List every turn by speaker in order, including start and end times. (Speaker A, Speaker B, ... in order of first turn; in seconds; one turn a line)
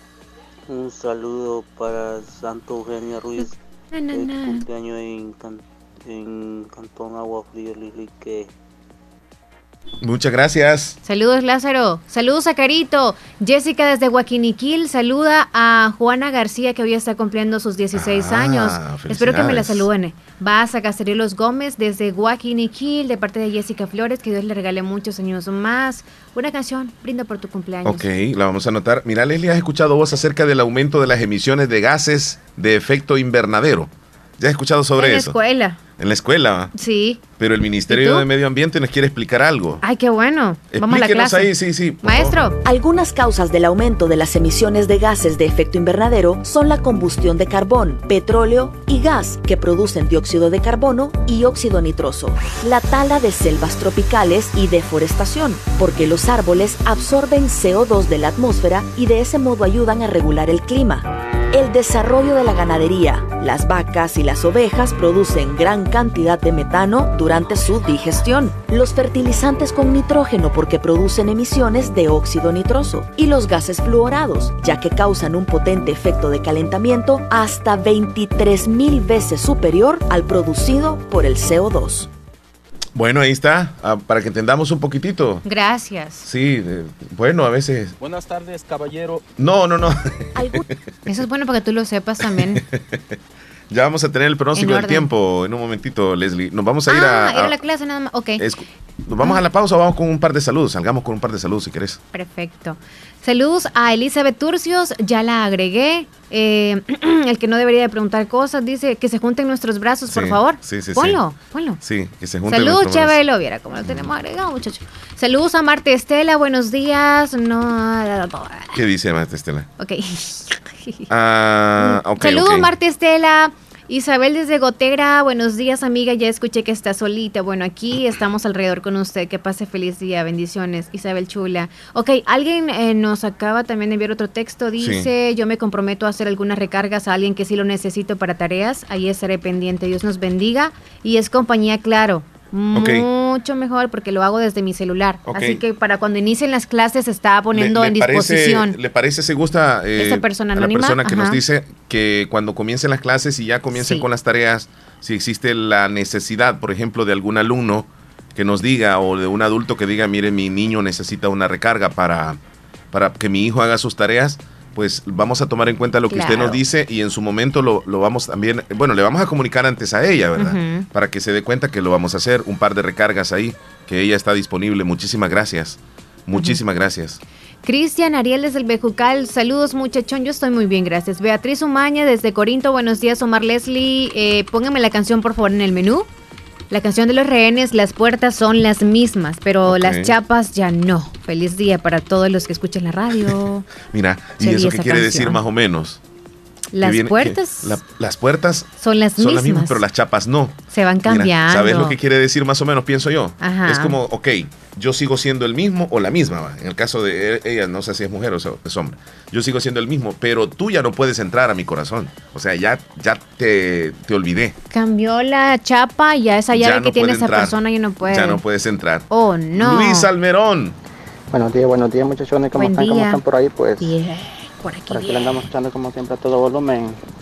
Speaker A: 0.7-3.6
Speaker B: 3.4-4.7
Speaker A: 4.1-8.5
Speaker C: 10.0-11.0
Speaker B: 11.1-28.1
Speaker C: 17.9-19.9
Speaker C: 27.9-35.4
Speaker B: 35.0-35.8
Speaker C: 36.0-36.7
Speaker B: 36.7-37.2
Speaker C: 37.4-39.8
Speaker B: 37.9-38.3
Speaker B: 39.8-42.6
Speaker C: 40.7-42.4
Speaker D: 42.6-82.1
Speaker C: 83.0-85.4
Speaker B: 85.5-86.3
Speaker C: 86.2-88.0
Speaker C: 89.4-90.0
Speaker D: 90.3-90.7
Speaker B: 91.1-92.6
Speaker C: 93.7-97.6
Speaker B: 94.5-95.1
Speaker B: 96.9-98.4
Speaker C: 98.4-102.0
Speaker B: 102.1-111.8
Speaker C: 110.1-111.2
Speaker C: 111.8-113.2
Speaker B: 112.5-118.8
Speaker C: 113.8-114.1
Speaker C: 118.7-119.7
Speaker B: 119.8-121.0
Speaker C: 121.1-122.7
Speaker B: 121.8-148.8
Speaker C: 134.8-135.1
Speaker C: 142.7-143.1
Speaker C: 145.3-145.6
Speaker C: 147.5-162.4
Speaker B: 150.0-151.4
Speaker B: 153.7-154.1
Speaker C: 162.9-177.2
Speaker B: 166.1-166.6
Speaker B: 170.4-170.9
Speaker B: 176.3-176.6
Speaker B: 177.6-186.1
Speaker B: 186.7-193.7
Speaker C: 189.7-190.1
Speaker C: 193.9-196.0
Speaker B: 194.4-195.4
Speaker B: 196.7-197.8
Speaker C: 196.8-214.6
Speaker B: 198.8-199.8
Speaker B: 200.7-202.0
Speaker B: 203.4-204.0
Speaker B: 214.7-218.4
Speaker C: 216.5-220.8
Speaker B: 219.1-220.1
Speaker E: 221.3-223.9
Speaker B: 222.6-223.2
Speaker B: 223.8-225.4
Speaker E: 224.9-227.0